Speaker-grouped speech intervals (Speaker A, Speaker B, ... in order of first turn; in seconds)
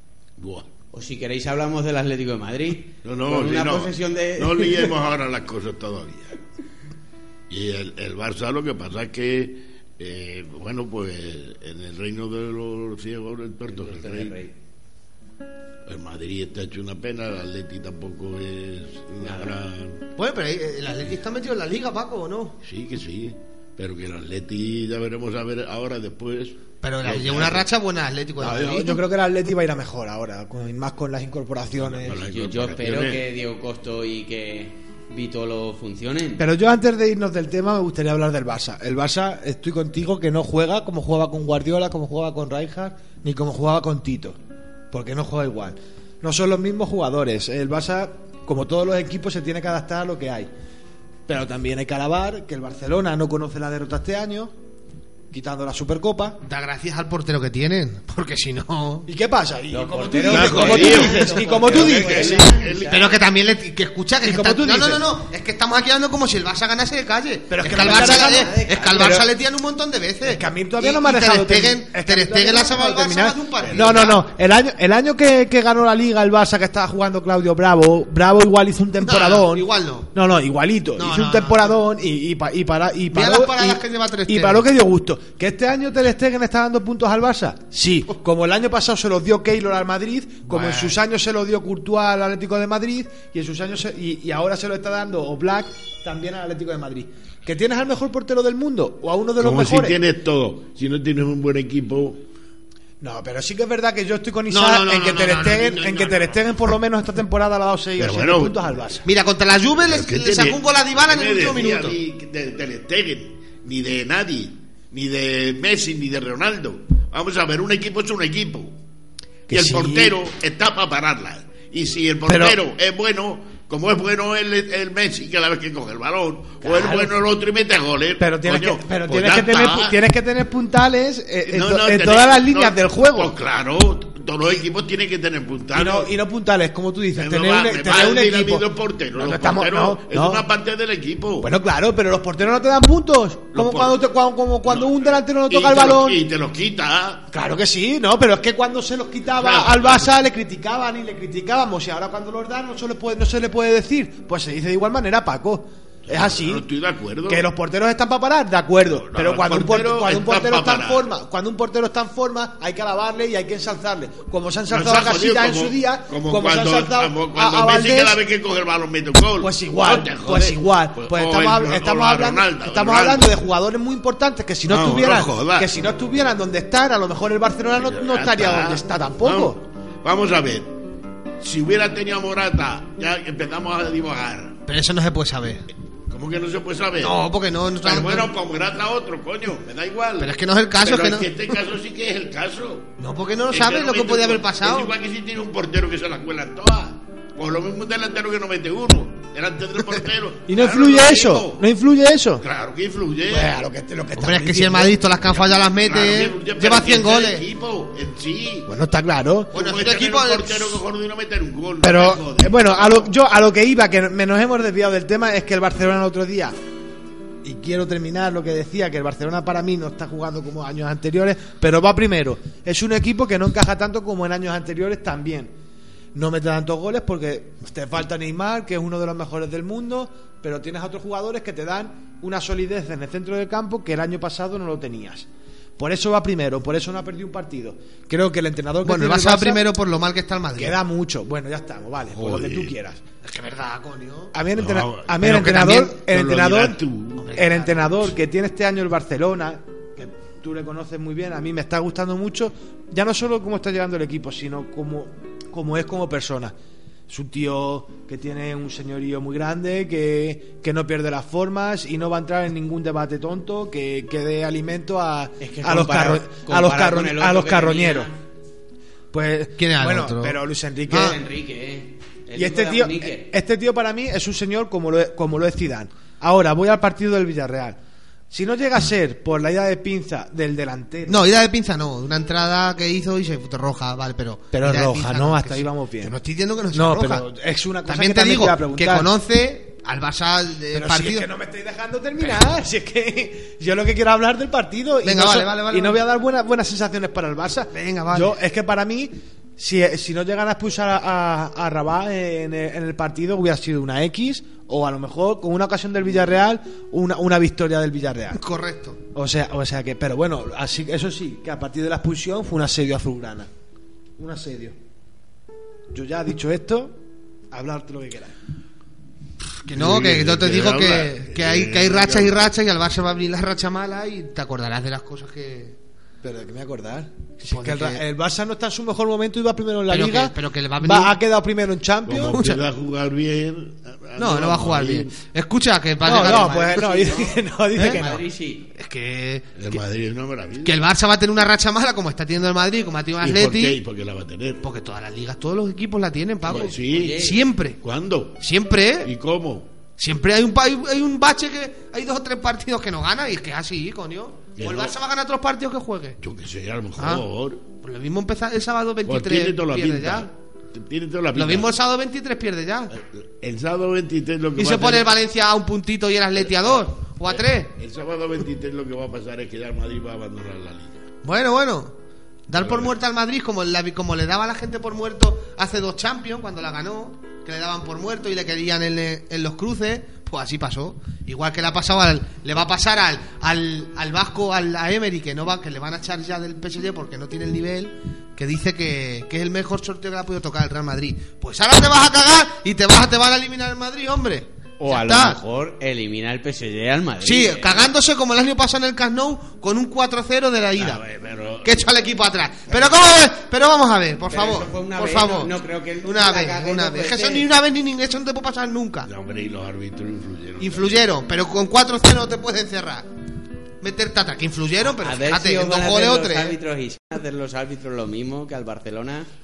Speaker A: 0.4-0.7, 3.0-6.4, 7.5-14.4, 15.9-20.1, 22.6-27.7, 31.8-33.2, 60.2-63.0, 73.6-74.0, 99.4-102.2, 108.0-108.7, 109.9-118.8, 119.5-130.0, 131.5-136.1, 137.1-141.5, 143.5-144.0, 144.7-147.3, 149.3-150.2, 156.1-157.5, 158.9-161.1, 164.7-173.3, 174.7-175.7, 177.8-180.7, 181.4-184.6, 186.1-187.2, 187.8-192.9, 193.5-201.6, 202.4-203.6, 205.3-208.7, 209.5-213.1, 242.1-242.7, 244.6-247.3, 319.7-322.5, 332.1-335.1, 339.6-340.8, 343.2-344.6, 346.5-347.2, 347.8-348.4, 349.0-349.7, 354.6-354.9, 356.2-357.6, 359.1-361.7, 362.9-365.1, 366.4-371.1, 372.6-372.9, 400.8-401.8, 409.1-411.0
Speaker B: 0.9-4.9, 13.8-14.5, 19.2-19.6, 32.2-36.5, 59.7-63.0, 67.7-69.2, 265.4-268.2, 270.9-273.3, 336.4-338.7, 346.5-347.4, 394.8-397.9, 404.3-407.5, 415.0-419.3
Speaker C: 20.2-22.6, 26.8-29.0, 56.4-59.1, 60.3-61.4, 62.8-74.3, 79.0-80.1, 81.0-81.8, 83.1-84.7, 90.5-91.0, 104.5-106.4, 109.0-112.0, 184.7-185.7, 187.0-188.3, 190.2-191.3, 193.0-194.9, 204.2-207.4, 209.5-210.8, 238.8-240.8, 243.2-244.3, 245.2-245.9, 247.2-248.1, 269.6-270.4, 270.9-271.2, 281.1-287.2, 287.9-291.3, 295.0-296.0, 297.7-298.4, 308.4-309.0, 319.6-325.8, 327.5-328.0, 329.9-331.2, 332.3-332.6, 334.2-338.0, 338.8-339.8, 340.6-343.8, 344.6-347.8, 348.4-349.1, 350.0-356.2, 357.0-357.2, 357.8-360.3, 361.4-362.9, 364.6-367.7, 371.2-371.9, 372.5-395.4, 397.2-401.0, 401.6-409.1, 410.6-413.1, 413.8-416.6
Speaker D: 28.4-32.2, 36.4-44.4, 44.9-50.5, 51.3-54.5, 55.3-56.4, 59.1-62.5, 64.2-65.0, 67.5-69.3, 70.2-100.0, 103.0-109.0, 119.5-120.2, 122.3-122.6, 126.6-127.2, 128.2-133.3, 135.7-140.4, 141.4-146.2, 147.3-156.7, 157.3-168.2, 169.4-179.6, 200.5-202.4, 203.3-204.9, 208.7-209.5, 211.8-216.6, 217.4-225.5, 226.1-235.3, 235.8-239.6, 240.6-243.0, 244.3-256.5, 257.1-268.1, 269.1-271.2, 272.4-277.8, 278.3-281.2, 284.5-286.1, 286.7-289.1, 290.7-308.4, 309.1-313.5, 314.2-314.8, 315.9-317.0, 317.5-318.3, 326.2-332.6, 336.0-338.2